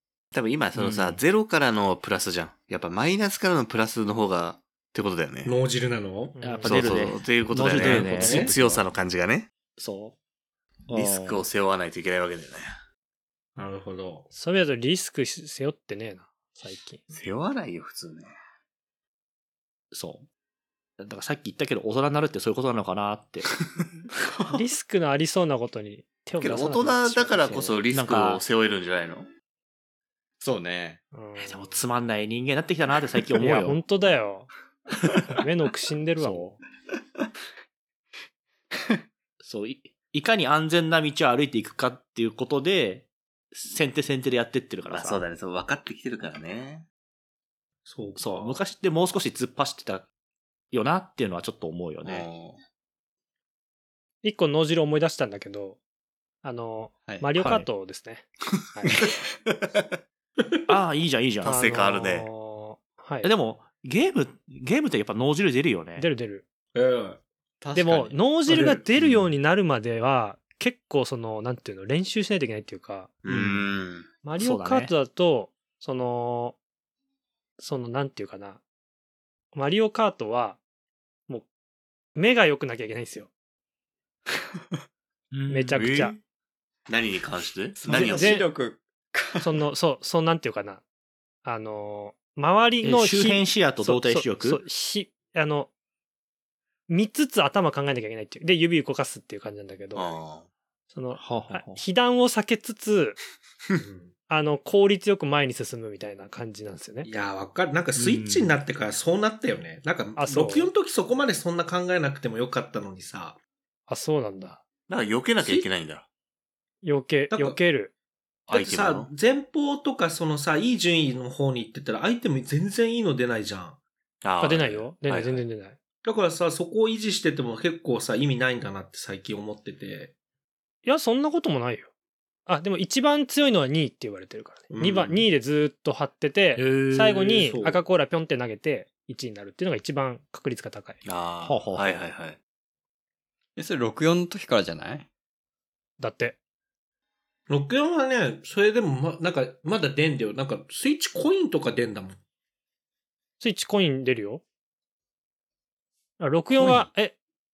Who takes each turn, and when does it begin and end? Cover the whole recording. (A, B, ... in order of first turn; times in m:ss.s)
0:00.3-0:05.6 A
0:00.8-0:01.2 B
0:05.4-0:06.4 C
0:06.4-0:06.9 D
0:06.4-0:08.8 B
0:06.6-0:09.5 A
0:07.7-0:08.5 C
0:09.8-0:10.2 B
0:10.9-0:11.4 B
0:10.9-0:12.7 A
0:13.6-0:14.3 C
0:14.3-0:17.0 D
0:17.1-0:18.3 A
0:19.9-0:20.3 B
0:21.0-0:23.5 B
0:24.5-0:27.7 D
0:26.4-0:29.3 A
0:27.9-0:28.4 B
0:30.4-0:31.0 E
0:31.1-0:31.8 D
0:31.4-0:33.8 B
0:33.4-0:34.5 D
0:35.3-0:36.6 D
0:36.2-0:36.6 B
0:39.4-0:45.2 B
0:44.9-0:46.9 A
0:47.9-0:48.6 C
0:48.2-0:50.1 B
0:50.7-0:52.3 B
0:52.0-0:52.6 A
0:54.2-0:55.8 D
0:56.4-0:59.0 D
0:57.0-0:57.3 E
0:57.4-0:57.7 B
0:59.5-0:59.8 A
1:00.7-1:01.6 B
1:01.4-1:02.3 A
1:01.4-1:03.3 D
1:03.2-1:06.1 B
1:06.0-1:06.4 D
1:06.8-1:07.2 C
1:07.6-1:08.2 E
1:07.8-1:13.2 D
1:08.5-1:08.8 C
1:13.2-1:14.1 A
1:13.3-1:13.7 B
1:14.2-1:16.6 D
1:14.4-1:14.9 B
1:17.6-1:18.6 D
1:19.5-1:20.6 D
1:22.2-1:23.3 D
1:25.3-1:25.9 B
1:25.5-1:26.2 D
1:25.8-1:26.2 A
1:26.9-1:28.4 A
1:27.8-1:29.6 E
1:27.9-1:28.5 D
1:29.4-1:30.8 D
1:31.4-1:35.7 D
1:32.8-1:34.6 B
1:36.9-1:40.2 D
1:40.0-1:40.5 A
1:40.9-1:43.2 D
1:41.2-1:41.8 B
1:43.8-1:44.1 C
1:44.3-1:47.1 D
1:47.0-1:53.4 C
1:48.0-1:48.6 B
1:50.2-1:50.7 D
1:53.9-1:54.6 D
1:54.9-1:56.1 A
1:55.4-1:55.7 C
1:56.8-1:57.9 D
1:57.3-1:57.6 C
1:58.5-1:59.1 A
1:58.5-2:03.8 C
2:04.2-2:05.4 A
2:04.4-2:05.8 D
2:06.0-2:10.1 C
2:10.8-2:11.9 D
2:12.5-2:21.0 D
2:14.7-2:15.3 C
2:16.6-2:17.3 B
2:17.1-2:17.8 C
2:21.0-2:22.4 A
2:21.4-2:22.0 B
2:23.6-2:25.1 E
2:26.0-2:26.4 D
2:27.5-2:32.2 C
2:33.4-2:34.4 D
2:36.2-2:37.2 D